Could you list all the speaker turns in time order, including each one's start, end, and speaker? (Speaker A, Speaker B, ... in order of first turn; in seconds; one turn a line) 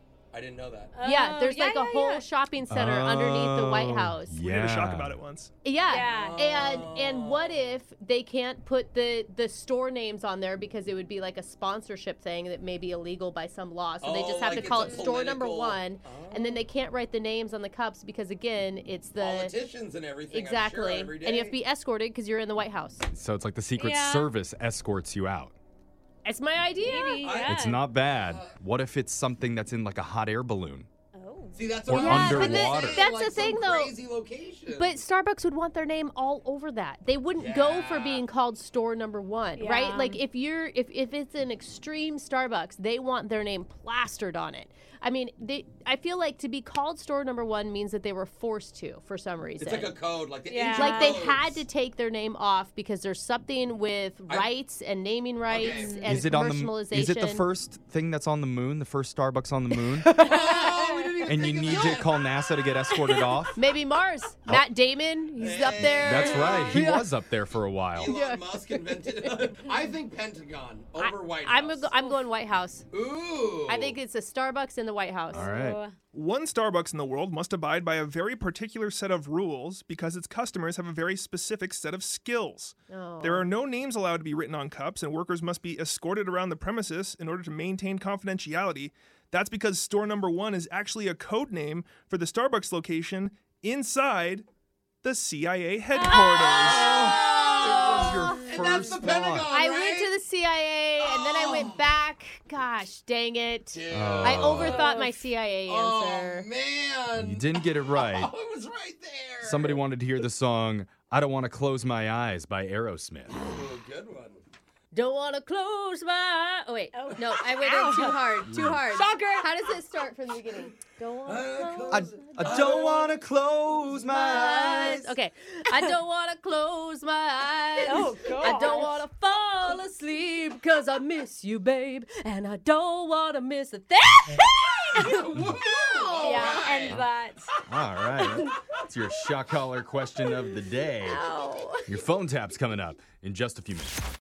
Speaker A: 0.3-0.9
Speaker B: 0.9-2.2
Speaker C: 1.0-4.4
Speaker D: 2.7-5.2
Speaker E: 4.3-5.5
Speaker C: 5.6-19.5
Speaker B: 5.9-6.5
Speaker A: 6.0-7.6
Speaker A: 14.0-16.6
Speaker B: 14.5-15.1
Speaker A: 19.2-21.6
Speaker C: 20.3-23.1
Speaker D: 23.1-25.6
Speaker B: 23.8-24.3
Speaker C: 26.2-27.4
Speaker B: 26.8-27.8
Speaker A: 27.2-28.5
Speaker D: 27.4-30.9
Speaker B: 31.1-31.9
Speaker A: 31.5-35.0
Speaker D: 31.9-33.0
Speaker C: 31.9-34.0
Speaker C: 34.7-50.0
Speaker A: 37.4-38.2
Speaker B: 39.6-40.2
Speaker A: 49.6-51.7
Speaker B: 50.5-51.2
Speaker C: 50.7-57.5
Speaker A: 55.5-56.0
Speaker B: 55.6-56.1
Speaker D: 56.0-60.2
Speaker C: 60.0-61.3
Speaker A: 60.2-62.3
Speaker D: 61.2-63.6
Speaker C: 63.5-67.1
Speaker A: 65.4-66.9
Speaker D: 66.0-68.2
Speaker A: 67.9-71.9
Speaker C: 68.0-69.4
Speaker C: 71.0-72.9
Speaker A: 72.9-74.0
Speaker C: 73.7-75.5
Speaker D: 75.3-75.8
Speaker B: 75.3-76.0
Speaker E: 76.1-94.5
Speaker C: 82.9-83.5
Speaker E: 95.0-96.9
Speaker B: 95.9-97.4
Speaker A: 96.6-100.1
Speaker D: 96.8-99.5
Speaker C: 97.8-98.5
Speaker C: 99.5-106.5
Speaker A: 101.0-101.8
Speaker A: 103.7-105.1
Speaker D: 103.9-104.9
Speaker A: 105.7-109.8
Speaker D: 107.1-108.3
Speaker D: 109.4-113.4
Speaker A: 113.3-114.4
Speaker C: 114.9-123.0
Speaker B: 116.9-119.5
Speaker D: 118.5-118.8
Speaker A: 121.3-123.1
Speaker D: 121.9-125.1
Speaker C: 124.0-134.8
Speaker B: 127.8-129.0
Speaker A: 134.9-137.0
Speaker C: 135.8-136.7
Speaker B: 136.2-137.5
Speaker D: 137.7-141.2
Speaker C: 141.0-141.8
Speaker D: 141.9-144.1